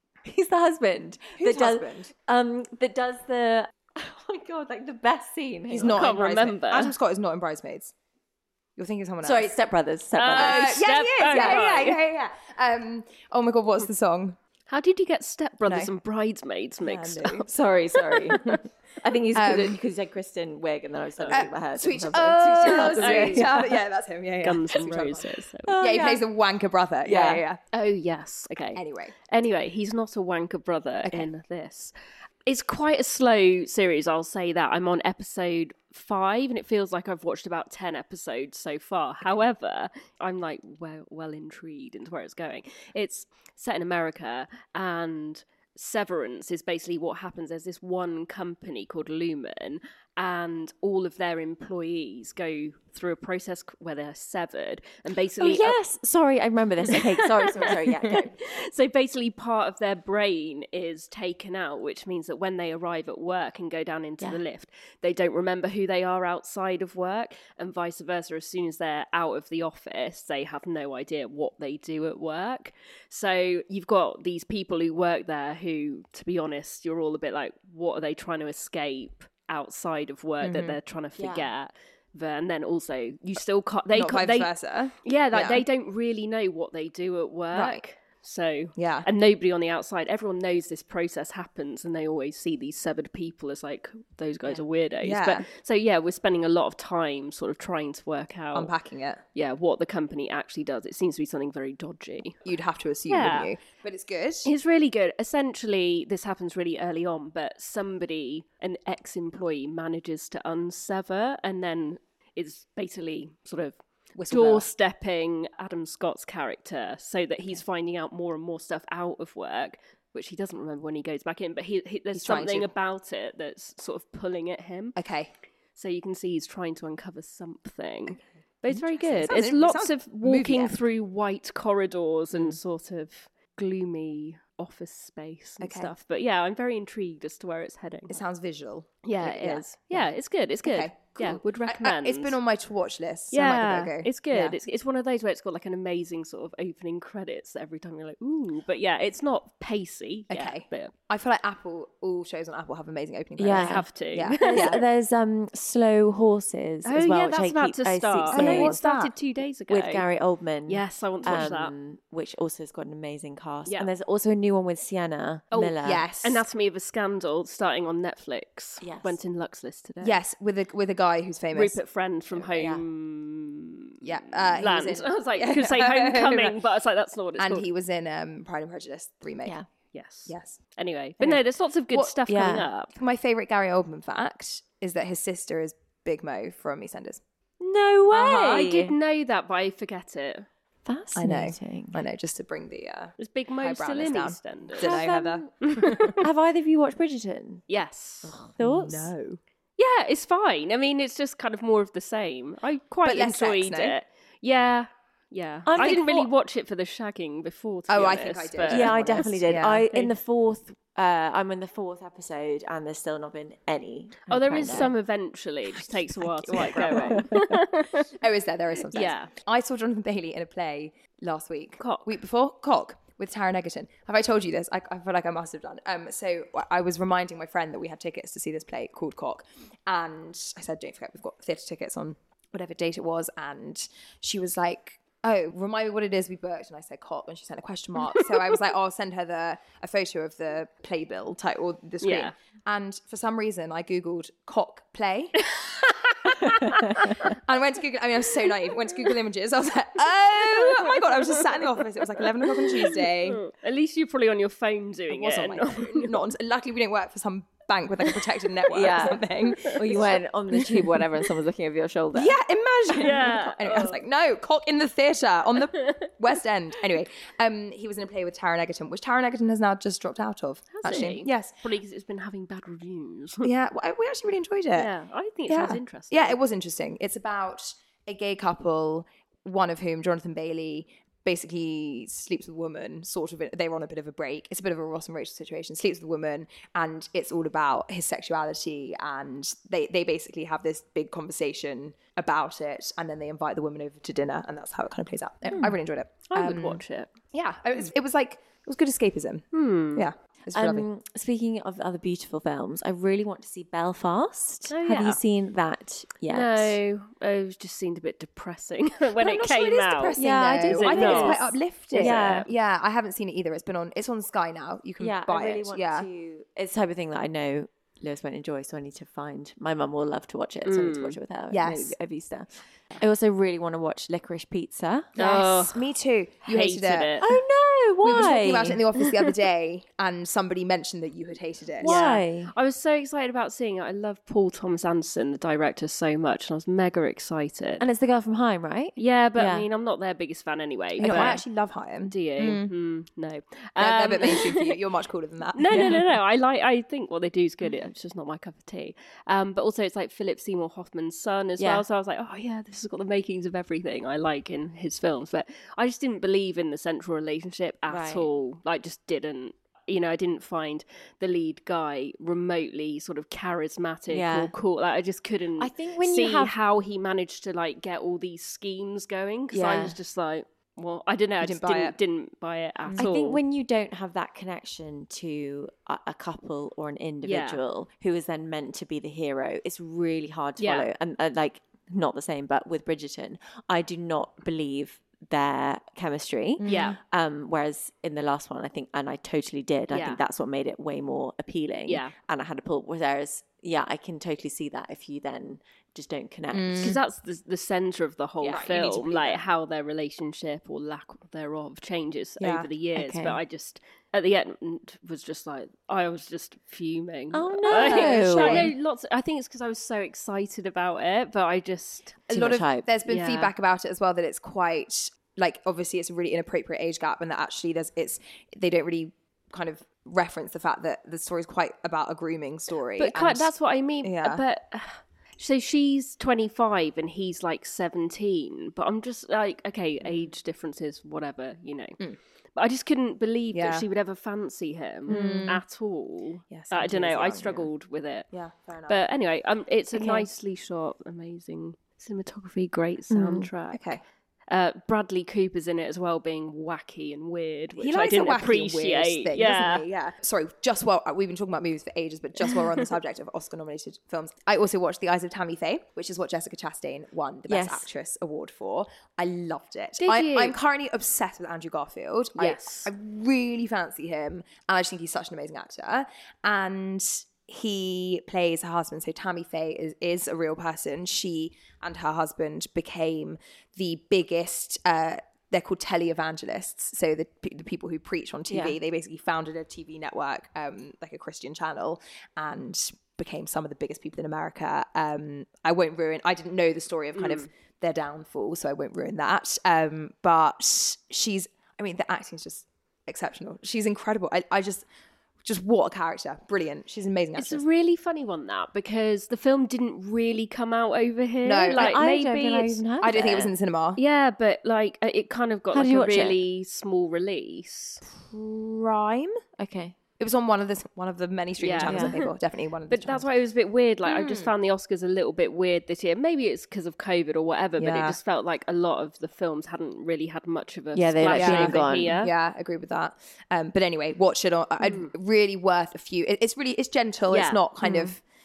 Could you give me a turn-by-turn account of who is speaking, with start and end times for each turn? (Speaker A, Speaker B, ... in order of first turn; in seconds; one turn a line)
Speaker A: 0.2-6.1
Speaker B: 1.4-2.1
Speaker B: 5.7-7.9
Speaker C: 6.0-6.9
Speaker B: 8.8-9.6
Speaker A: 9.2-11.6
Speaker C: 10.1-12.0
Speaker B: 10.3-14.4
Speaker C: 14.7-17.5
Speaker B: 16.8-18.6
Speaker A: 17.4-23.7
Speaker B: 19.4-19.8
Speaker B: 21.3-27.6
Speaker C: 22.6-23.7
Speaker C: 24.4-25.8
Speaker A: 25.7-26.2
Speaker A: 27.1-27.4
Speaker C: 27.7-31.9
Speaker B: 28.7-29.1
Speaker C: 32.5-55.8
Speaker A: 55.4-58.3
Speaker C: 56.9-84.5
Speaker B: 80.4-80.8
Speaker A: 81.2-81.5
Speaker B: 83.9-85.6
Speaker C: 85.0-98.7
Speaker B: 87.5-87.8
Speaker B: 88.8-89.1
Speaker B: 94.5-95.5
Speaker B: 98.5-99.2
Speaker C: 99.3-102.4
Speaker B: 102.5-104.5
Speaker C: 103.1-103.5
Speaker C: 104.5-113.8
Speaker B: 114.2-114.7
Speaker C: 114.3-125.0
Speaker B: 122.1-122.7
Speaker B: 125.0-125.3
Speaker C: 125.8-138.2
Speaker B: 128.1-130.8
Speaker B: 135.6-135.9
Speaker B: 138.1-140.1
Speaker C: 139.0-142.4
Speaker B: 140.6-144.6
Speaker C: 143.3-150.9
Speaker B: 150.3-154.8
Speaker A: 153.4-158.8
Speaker C: 153.5-154.8
Speaker C: 156.8-160.1
Speaker B: 158.3-159.1
Speaker A: 159.7-166.0
Speaker C: 160.7-161.7
Speaker C: 163.7-163.9
Speaker C: 165.5-170.2
Speaker B: 165.8-166.4
Speaker A: 168.8-169.2
Speaker B: 170.0-171.8
Speaker C: 171.5-177.7
Speaker A: 172.5-172.8
Speaker B: 174.0-176.6
Speaker B: 177.4-179.6
Speaker C: 179.9-182.9
Speaker B: 180.3-180.6
Speaker B: 181.2-182.1
Speaker A: 182.3-182.7
Speaker B: 182.9-187.2
Speaker A: 187.6-188.9
Speaker C: 188.2-190.5
Speaker A: 190.8-192.0
Speaker B: 191.2-196.2
Speaker C: 193.2-195.0
Speaker A: 194.8-197.6
Speaker C: 195.6-196.2
Speaker C: 197.7-198.3
Speaker A: 198.2-199.1
Speaker B: 198.6-199.4
Speaker C: 199.8-209.4
Speaker B: 203.1-203.9
Speaker A: 205.7-206.3
Speaker B: 207.9-209.9
Speaker A: 208.7-214.9
Speaker C: 214.3-218.1
Speaker B: 216.5-217.3
Speaker A: 216.5-217.5
Speaker B: 218.2-245.5
Speaker C: 218.9-219.3
Speaker C: 221.8-222.2
Speaker C: 242.0-242.3
Speaker C: 245.6-245.9
Speaker B: 246.3-253.4
Speaker C: 246.5-247.1
Speaker C: 250.5-251.7
Speaker C: 252.5-256.1
Speaker B: 255.1-260.6
Speaker A: 258.7-262.4
Speaker B: 262.1-271.5
Speaker C: 262.9-264.0
Speaker C: 270.8-273.5
Speaker B: 273.4-274.9
Speaker C: 274.8-276.4
Speaker B: 275.5-296.8
Speaker C: 296.3-297.1
Speaker B: 297.3-300.9
Speaker C: 299.5-300.1
Speaker A: 300.5-306.8
Speaker C: 304.7-305.2
Speaker C: 306.3-312.5
Speaker B: 309.2-316.1
Speaker A: 310.2-312.5
Speaker A: 315.0-325.2
Speaker C: 320.7-321.2
Speaker B: 321.5-321.9
Speaker C: 325.2-325.9
Speaker B: 325.2-327.1
Speaker C: 326.4-327.3
Speaker A: 327.2-328.8
Speaker B: 328.0-332.0
Speaker A: 331.8-332.5
Speaker C: 331.8-337.8
Speaker A: 337.8-339.7
Speaker C: 339.0-341.4
Speaker B: 341.0-342.7
Speaker A: 341.0-341.4
Speaker C: 342.1-344.8
Speaker B: 343.8-345.8
Speaker C: 345.6-373.4
Speaker A: 345.7-346.1
Speaker A: 351.6-351.9
Speaker A: 357.9-358.3
Speaker A: 364.1-364.5
Speaker A: 365.6-366.6
Speaker A: 369.5-370.0
Speaker B: 371.4-372.0
Speaker A: 373.0-397.0
Speaker C: 377.2-377.6
Speaker C: 380.6-380.9
Speaker B: 386.6-387.0
Speaker C: 386.7-387.0
Speaker C: 389.9-390.2
Speaker C: 391.9-392.1
Speaker B: 396.5-397.0
Speaker C: 396.8-412.3
Speaker A: 398.4-398.7
Speaker B: 398.5-399.4
Speaker B: 402.4-402.7
Speaker A: 402.9-403.4
Speaker A: 407.3-408.7
Speaker B: 407.7-408.7
Speaker B: 412.3-424.4
Speaker A: 412.3-412.9
Speaker C: 413.1-413.5
Speaker C: 423.0-432.0
Speaker B: 430.0-430.3
Speaker C: 432.6-438.3
Speaker B: 433.5-433.8
Speaker B: 435.1-435.6
Speaker A: 435.1-435.4
Speaker B: 436.5-437.7
Speaker B: 438.3-439.0
Speaker C: 438.9-443.8
Speaker B: 439.9-440.3
Speaker A: 443.1-443.5
Speaker B: 443.7-444.0
Speaker C: 444.5-449.8
Speaker B: 447.8-494.9
Speaker A: 457.5-457.9
Speaker C: 460.0-460.6
Speaker C: 462.4-462.9
Speaker A: 478.5-478.8
Speaker C: 487.2-487.5
Speaker B: 495.4-497.6
Speaker C: 497.4-502.8
Speaker B: 501.4-502.0
Speaker A: 501.7-503.5
Speaker B: 503.0-504.0
Speaker C: 504.0-508.0
Speaker A: 505.7-506.4
Speaker B: 508.3-509.4
Speaker A: 509.6-510.0
Speaker B: 510.2-513.3
Speaker C: 511.6-512.3
Speaker A: 511.8-512.2
Speaker C: 512.9-522.3
Speaker B: 514.1-514.5
Speaker B: 517.8-518.2
Speaker A: 520.9-522.2
Speaker B: 521.3-528.2
Speaker C: 524.8-525.1
Speaker C: 527.3-528.1